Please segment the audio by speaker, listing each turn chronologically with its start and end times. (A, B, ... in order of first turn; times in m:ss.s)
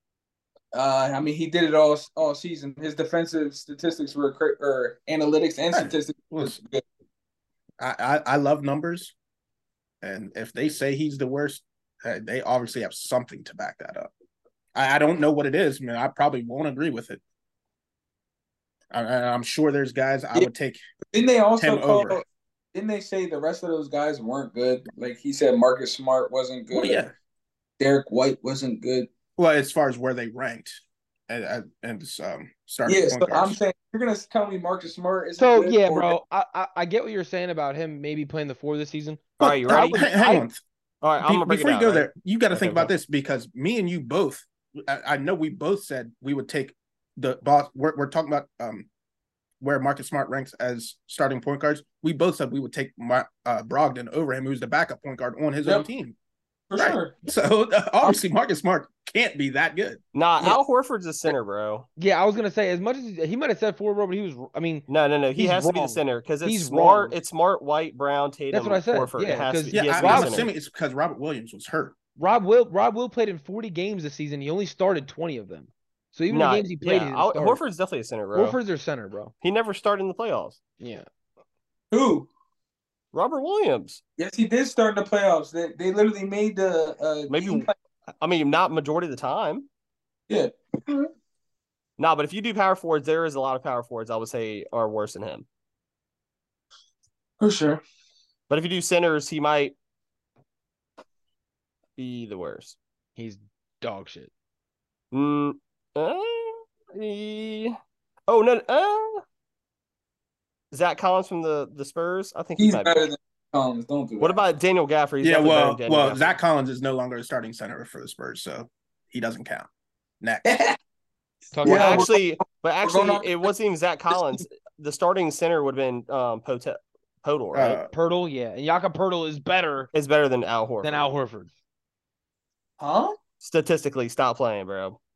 0:00.7-0:06.8 A
0:05.7-0:06.6 B
0:07.8-0:09.1 B
0:10.0-0:14.1 B
0:14.8-0:17.2 B
0:18.9-0:20.8 B
0:21.1-0:27.0 A
0:21.6-0:22.2 B
0:26.7-0:27.1 B
0:27.8-0:29.1 A
0:29.4-0:33.6 B
0:32.9-0:36.2 A
0:35.4-0:40.4 C
0:39.4-0:40.1 D
0:39.4-0:40.6 B
0:41.0-0:42.9 D
0:41.2-0:48.9 B
0:49.6-0:56.2 B
0:56.7-0:57.2 A
0:56.8-1:00.0 B
1:00.1-1:01.9 D
1:02.0-1:07.2 C
1:04.9-1:10.5 D
1:08.5-1:10.5 C
1:09.7-1:12.0 B
1:12.2-1:17.6 C
1:16.3-1:18.6 D
1:18.3-1:19.3 C
1:19.4-1:20.6 D
1:20.8-1:21.1 C
1:21.9-1:22.3 A
1:23.1-1:24.0 D
1:24.2-1:27.7 A
1:27.3-1:29.7 D
1:30.3-1:31.1 A
1:32.0-1:35.5 D
1:37.4-1:37.8 A
1:38.5-1:39.8 D
1:42.0-1:42.8 D
1:43.2-1:44.3 C
1:45.1-1:49.2 D
1:50.7-1:53.0 D
1:52.6-1:54.4 A
1:54.2-1:56.4 D
1:55.2-1:59.7 B
2:00.2-2:00.6 B
2:00.5-2:00.8 A
2:01.5-2:02.1 C
2:01.6-2:03.4 A
2:01.6-2:07.8 D
2:07.5-2:07.9 B
2:07.9-2:09.9 C
2:09.9-2:11.1 D
2:10.8-2:11.5 C
2:12.8-2:13.2 A
2:13.4-2:15.0 D